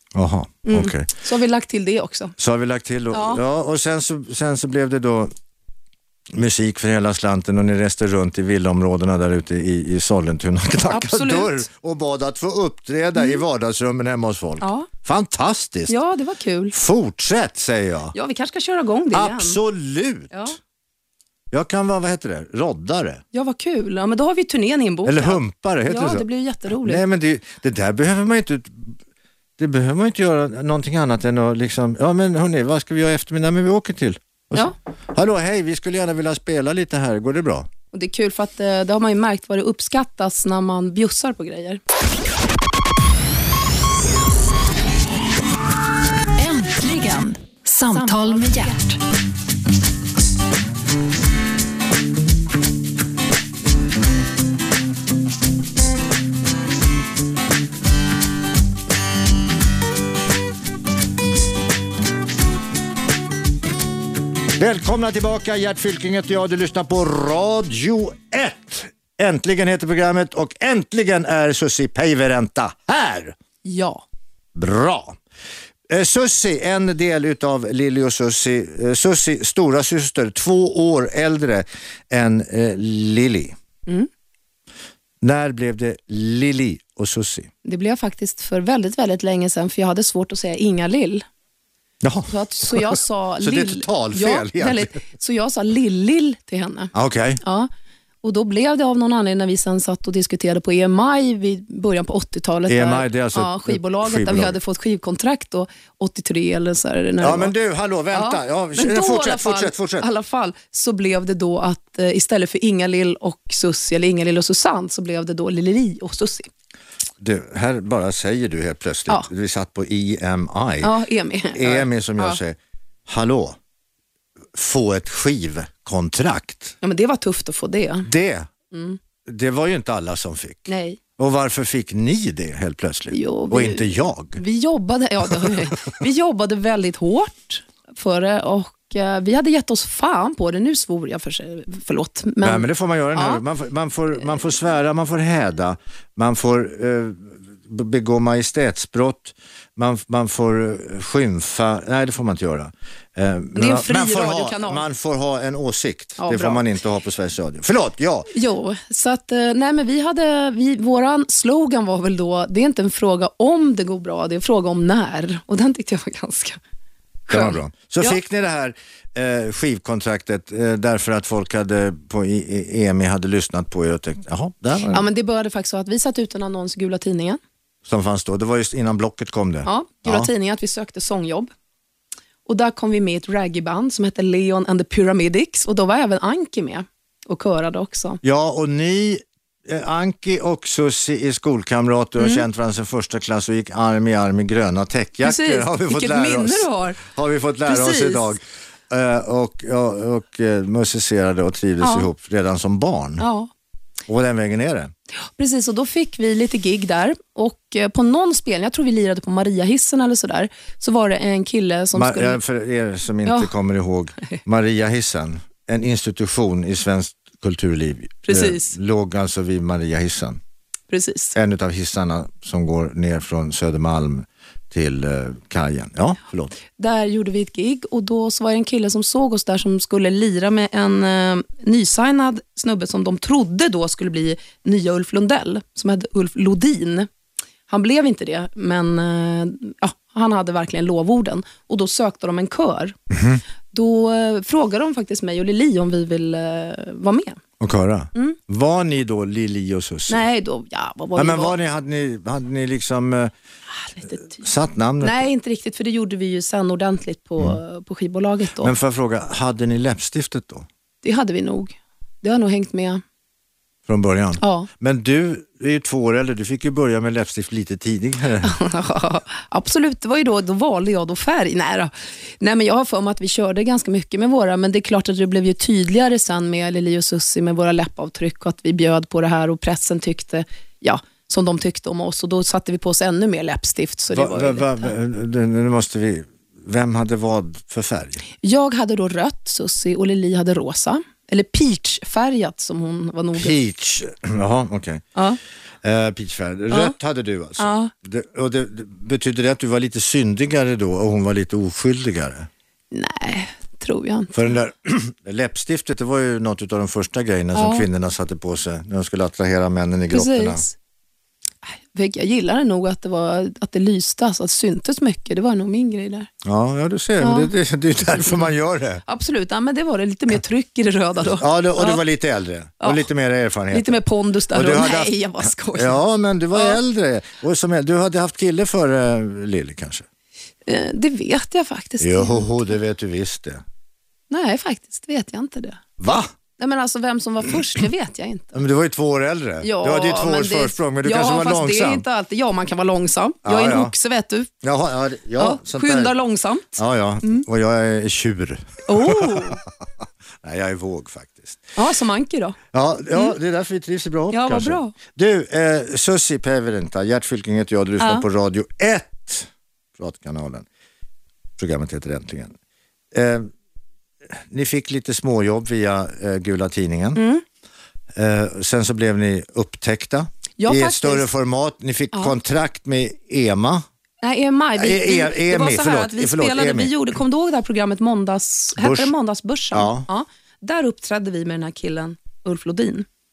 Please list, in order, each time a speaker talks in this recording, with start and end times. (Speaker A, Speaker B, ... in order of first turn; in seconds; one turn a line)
Speaker A: 0.1-1.1
Speaker B: 0.6-2.3
Speaker A: 2.4-5.3
Speaker B: 3.1-3.4
Speaker A: 6.3-15.9
Speaker B: 10.9-11.7
Speaker B: 13.2-13.4
Speaker B: 14.6-14.9
Speaker B: 15.9-16.7
Speaker A: 16.7-18.1
Speaker B: 18.1-19.6
Speaker A: 19.1-20.4
Speaker B: 20.3-20.6
Speaker A: 21.5-23.2
Speaker B: 23.3-27.0
Speaker A: 25.0-28.9
Speaker A: 29.6-37.7
Speaker B: 37.9-41.8
Speaker C: 46.4-49.0
Speaker A: 64.6-73.3
Speaker B: 73.6-74.0
Speaker A: 74.5-75.2
Speaker A: 75.9-83.5
Speaker A: 85.2-87.5
Speaker B: 87.6-91.2
Speaker A: 92.0-95.0
Speaker B: 92.3-97.7
Speaker A: 96.9-97.4
Speaker B: 98.2-107.5
Speaker A: 102.7-104.6
Speaker A: 107.2-110.1
Speaker B: 108.1-116.5
Speaker A: 117.2-120.9
Speaker B: 120.8-122.4
Speaker A: 121.5-123.6
Speaker A: 124.5-126.7
Speaker B: 126.8-128.1
Speaker A: 128.0-128.5
Speaker B: 128.7-129.0
Speaker A: 129.2-134.4
Speaker B: 130.7-131.0
Speaker B: 133.1-143.4
Speaker A: 142.4-158.3
Speaker B: 153.5-154.8
Speaker B: 156.2-156.6
Speaker B: 158.3-166.6
Speaker B: 167.3-168.2
Speaker A: 167.3-175.0
Speaker B: 174.9-177.4
Speaker A: 177.8-180.3
Speaker B: 179.6-181.5
Speaker B: 182.4-188.2
Speaker A: 188.2-203.2
Speaker B: 192.2-192.4
Speaker B: 195.2-197.0
Speaker B: 197.6-198.3
Speaker B: 201.8-202.1
Speaker B: 203.2-203.5
Speaker A: 204.1-204.9
Speaker B: 205.4-212.4
Speaker A: 211.9-220.4
Speaker B: 213.2-213.5
Speaker B: 218.2-218.7
Speaker B: 220.9-221.3
Speaker A: 221.3-226.6
Speaker B: 226.8-237.1
Speaker B: 237.7-242.9
Speaker A: 243.1-243.4
Speaker B: 243.7-247.4
Speaker A: 247.6-250.2
Speaker B: 250.1-251.5
Speaker A: 251.2-253.3
Speaker B: 253.9-254.4
Speaker A: 254.3-255.2
Speaker B: 255.0-258.7
Speaker A: 258.6-260.6
Speaker B: 261.0-263.0
Speaker A: 263.9-268.5
Speaker B: 264.4-264.7
Speaker B: 268.4-284.9
Speaker A: 284.1-288.2
Speaker B: 288.4-293.5
Speaker A: 293.4-295.0
Speaker A: 295.8-302.5
Speaker B: 296.7-296.9
Speaker B: 297.6-297.9
Speaker B: 302.9-304.3
Speaker A: 304.3-310.6
Speaker B: 307.5-307.9
Speaker B: 310.1-310.7
Speaker B: 311.6-316.3
Speaker A: 316.4-319.0
Speaker B: 317.2-317.5
Speaker B: 319.1-322.0
Speaker A: 321.2-324.0
Speaker B: 323.7-326.0
Speaker A: 324.5-325.1
Speaker A: 325.7-330.0
Speaker B: 330.6-332.5
Speaker A: 332.0-333.6
Speaker B: 334.3-335.8
Speaker A: 336.0-336.3
Speaker B: 336.6-338.6
Speaker A: 338.5-342.0
Speaker B: 339.6-344.5
Speaker A: 343.4-343.9
Speaker A: 344.6-346.1
Speaker B: 345.4-347.4
Speaker A: 346.8-349.7
Speaker B: 348.9-349.6
Speaker A: 350.4-351.7
Speaker B: 351.8-352.6
Speaker A: 352.7-360.6
Speaker B: 354.3-354.9
Speaker B: 358.0-358.2
Speaker A: 361.6-362.5
Speaker A: 363.1-363.5
Speaker A: 364.3-367.2
Speaker B: 367.1-367.4
Speaker A: 368.1-373.8
Speaker B: 370.6-371.3
Speaker B: 374.2-383.1
Speaker A: 374.8-376.9
Speaker A: 378.8-379.1
Speaker A: 379.7-380.1